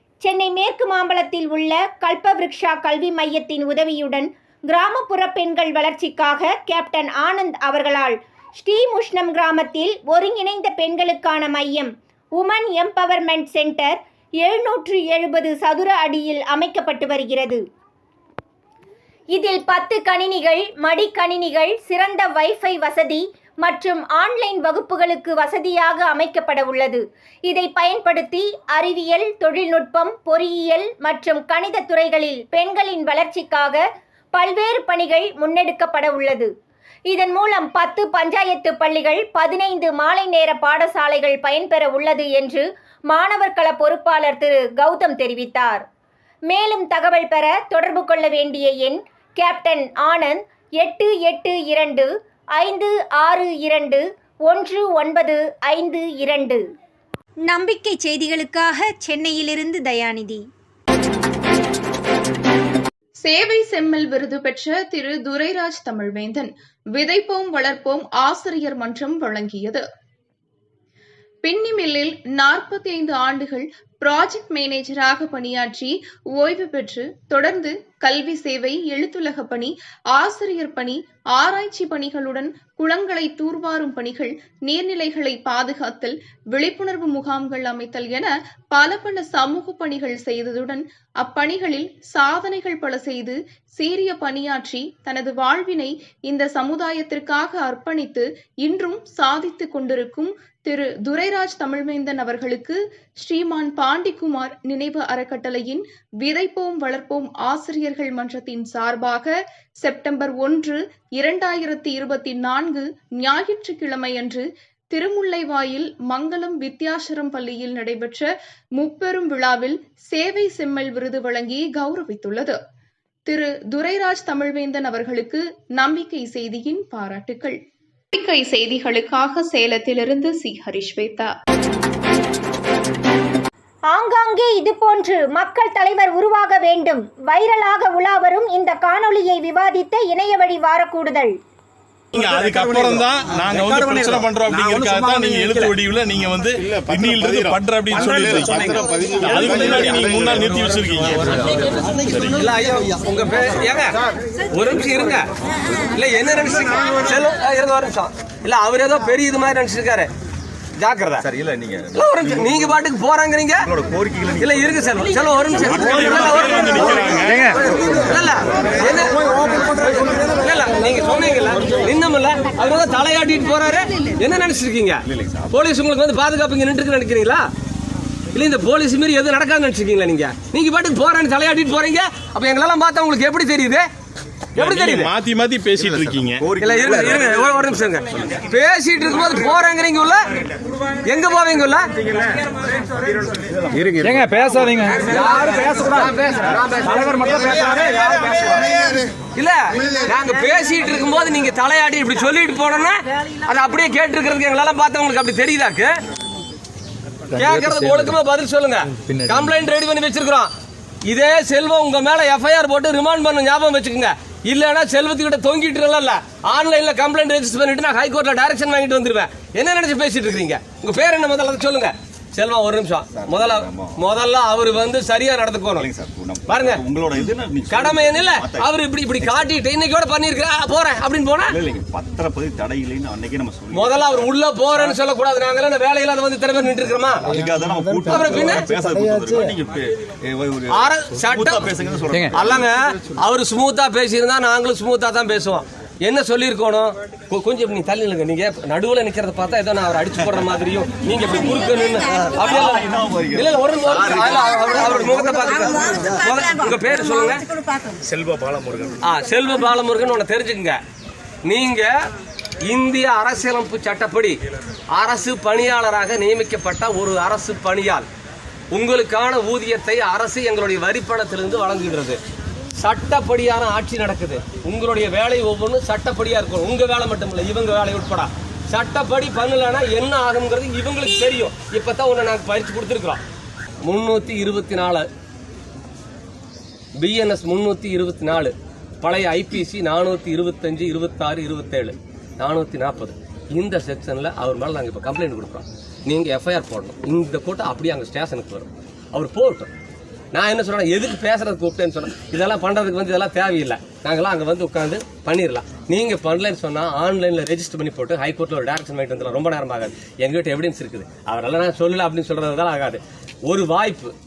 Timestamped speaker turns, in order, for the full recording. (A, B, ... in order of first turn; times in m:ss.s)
0:00.2-0:17.6 A
0:19.3-0:33.8 A
0:34.3-0:36.5 A
0:37.1-0:45.8 A
0:46.5-0:56.6 A
0:57.5-1:00.4 A
1:03.2-1:09.8 B
1:11.4-2:02.6 B
2:03.2-2:07.6 B
2:08.1-2:11.4 B
2:13.9-2:21.4 A
2:22.1-2:31.3 C
2:23.7-2:25.6 D
2:27.9-2:30.3 D
2:31.3-2:31.8 D
2:32.0-2:32.4 C
2:32.3-2:33.9 E
2:34.5-2:35.3 E
2:35.8-2:40.1 E
2:40.8-2:41.2 E
2:41.2-2:42.7 D
2:42.0-2:43.7 E
2:43.6-2:44.8 D
2:44.4-2:47.2 E
2:45.8-2:47.5 C
2:47.8-2:57.4 E
2:55.1-2:55.5 D
2:58.3-3:03.9 E
3:04.6-3:05.1 E
3:04.6-3:06.4 C
3:05.8-3:08.2 D
3:06.6-3:10.2 E
3:11.0-3:11.8 E
3:13.3-3:14.1 D
3:14.8-3:18.8 E
3:19.3-3:25.9 E
3:27.3-3:30.5 E
3:31.0-3:45.9 E
3:43.1-3:44.0 D
3:45.7-3:48.7 D
3:46.5-3:46.8 E
3:47.7-3:51.6 E
3:51.5-3:54.3 D
3:53.7-3:57.2 E
3:57.3-4:02.4 D
3:58.1-3:58.7 E
4:00.7-4:01.7 E
4:02.3-4:17.5 E
4:12.4-4:15.3 D
4:18.3-4:18.9 C
4:19.0-4:20.8 E
4:21.4-4:21.9 E
4:22.7-4:24.4 E
4:24.9-4:28.0 E
4:28.7-4:32.2 E
4:32.8-4:43.2 E
4:43.8-4:45.0 E
4:47.0-4:59.7 E
5:00.3-5:14.1 E